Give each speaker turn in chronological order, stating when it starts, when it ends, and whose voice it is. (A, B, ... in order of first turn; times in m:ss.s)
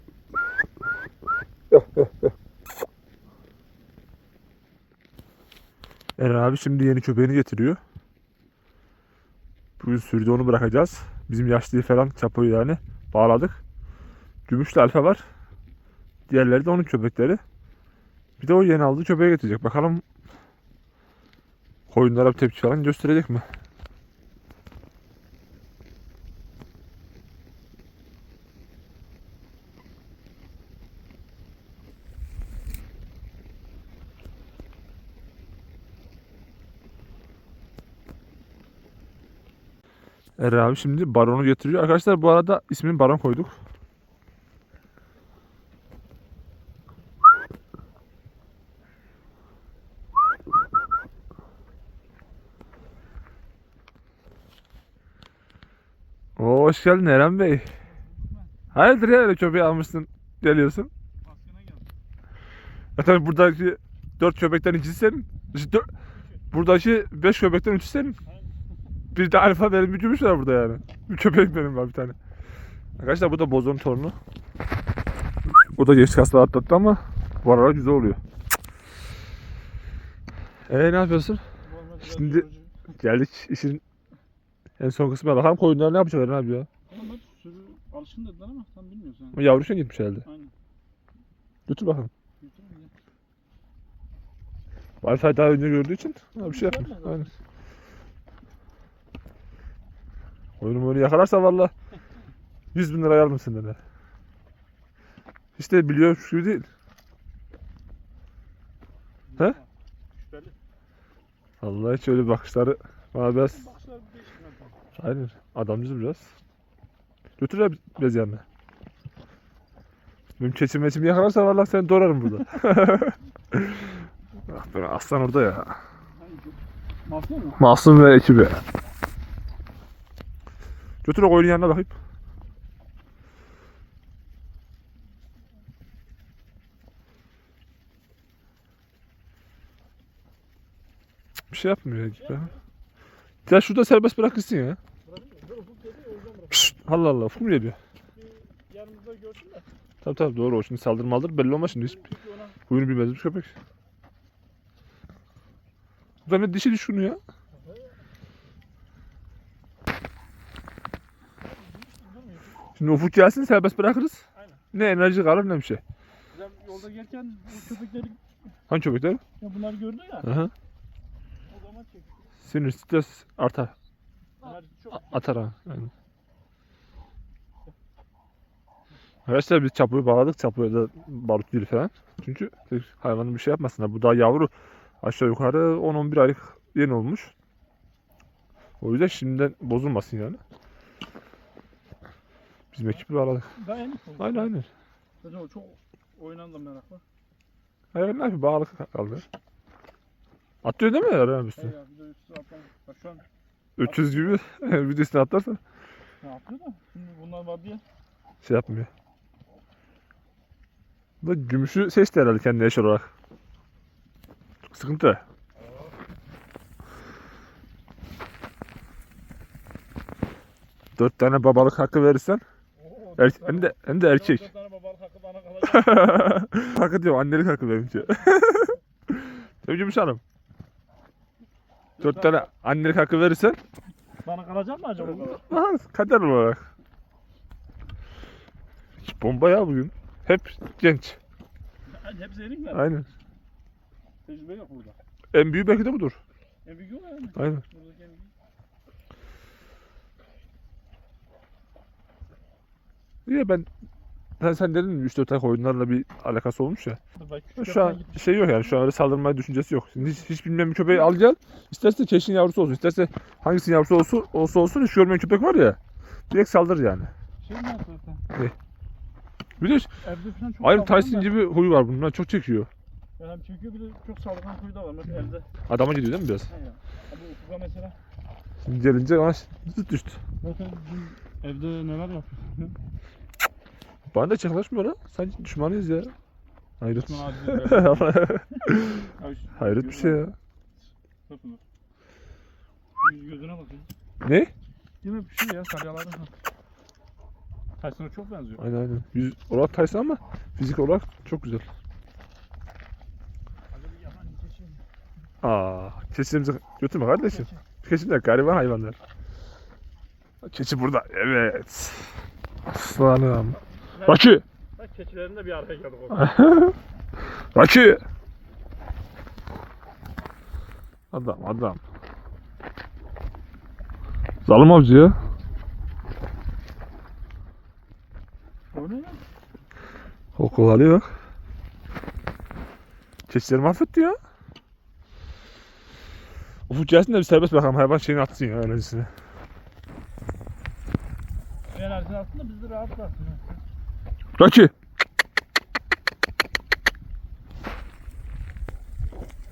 0:01.7-0:02.3 A
0:06.2-0:07.8 A
0:09.8-0:13.6 A
0:14.5-0:15.2 A
0:16.3-0:17.4 A
0:18.4-0:20.0 A
0:21.9-0:23.4 A
0:40.4-0:43.5 A
0:56.4-0:57.6 A
0:57.8-0:58.5 B
0:58.7-1:00.9 A
1:01.2-1:01.9 B
1:03.0-1:05.9 A
1:06.5-1:08.2 A
1:08.2-1:08.5 B
1:09.1-1:12.2 A
1:13.0-1:14.2 A
1:15.7-1:18.2 A
1:20.7-1:21.4 A
1:21.6-1:22.7 B
1:22.0-1:22.4 A
1:23.0-1:23.8 A
1:24.8-1:26.7 A
1:26.9-1:29.5 B
1:29.3-1:30.2 A
1:30.2-1:30.5 B
1:31.7-1:32.1 A
1:32.4-1:32.9 B
1:35.0-1:37.3 A
1:36.4-1:37.3 B
1:40.6-1:41.7 A
1:42.7-1:43.8 A
1:45.6-1:46.7 A
1:49.3-1:50.5 B
1:51.6-1:53.6 A
1:53.5-1:54.8 B
1:55.0-1:56.3 A
1:57.4-1:58.4 A
2:00.4-2:04.0 A
2:04.5-2:05.8 A
2:06.2-2:07.6 B
2:07.6-2:08.6 A
2:11.0-2:11.9 A
2:21.5-2:22.5 A
2:22.2-2:22.6 B
2:23.4-2:24.8 A
2:25.0-2:26.8 B
2:26.5-2:27.8 A
2:28.1-2:29.6 B
2:30.0-2:32.0 A
2:31.7-2:32.6 B
2:32.7-2:33.5 A
2:36.2-2:37.2 A
2:37.6-2:37.9 B
2:41.4-2:42.6 B
2:42.8-2:44.2 A
2:44.3-2:44.6 B
2:44.7-2:45.8 A
2:46.3-2:48.2 B
2:48.7-2:49.2 A
2:49.4-2:50.3 B
2:50.2-2:50.5 A
2:51.5-2:52.2 B
2:52.4-2:53.7 A
2:54.4-2:55.3 B
2:54.9-2:55.9 A
2:59.3-3:04.5 A
3:05.0-3:07.3 A
3:08.8-3:10.4 A
3:12.7-3:13.5 A
3:13.5-3:14.5 B
3:14.2-3:14.6 A
3:15.2-3:17.0 B
3:17.9-3:19.2 A
3:20.6-3:21.7 A
3:21.6-3:23.2 B
3:23.8-3:25.6 A
3:23.8-3:24.4 B
3:26.2-3:27.8 B
3:28.4-3:28.9 A
3:31.2-3:33.1 A
3:34.7-3:35.2 A
3:41.0-3:42.4 A
3:42.8-3:46.2 B
3:43.2-3:44.4 A
3:45.6-3:50.2 A
3:52.0-3:52.5 B
3:52.0-3:53.6 A
3:54.2-3:55.4 B
3:55.0-3:56.6 A
3:59.0-4:01.2 A
4:01.9-4:02.9 B
4:02.7-4:03.0 A
4:04.2-4:05.0 B
4:05.3-4:06.2 A
4:06.6-4:08.3 B
4:07.4-4:07.6 A
4:13.2-4:13.7 A
4:14.4-4:17.0 A
4:17.1-4:18.7 B
4:17.6-4:27.1 A
4:27.4-4:28.2 B
4:29.6-4:29.9 A
4:30.0-4:31.4 B
4:30.6-4:32.7 A
4:33.2-4:35.4 B
4:35.7-4:36.5 A
4:36.5-4:37.9 B
4:38.6-4:40.2 A
4:40.4-4:42.7 B
4:44.1-4:46.1 A
4:46.8-4:50.3 A
4:46.9-4:50.2 B
4:51.3-4:51.6 B
4:53.0-4:53.9 B
4:54.2-4:54.5 A
4:55.0-4:56.3 B
4:57.8-4:58.6 B
4:58.6-5:01.6 A
5:03.7-5:04.8 B
5:05.4-5:09.0 A
5:07.3-5:07.6 B
5:10.4-5:12.1 A
5:12.7-5:14.4 A
5:13.9-5:16.3 B
5:16.1-5:16.8 A
5:17.5-5:18.0 A
5:21.1-5:21.8 A
5:24.4-5:25.2 A
5:28.7-5:29.2 B
5:30.4-5:31.1 A
5:33.3-5:34.2 A
5:36.7-5:39.1 A
5:41.7-5:43.4 B
5:44.4-5:44.7 A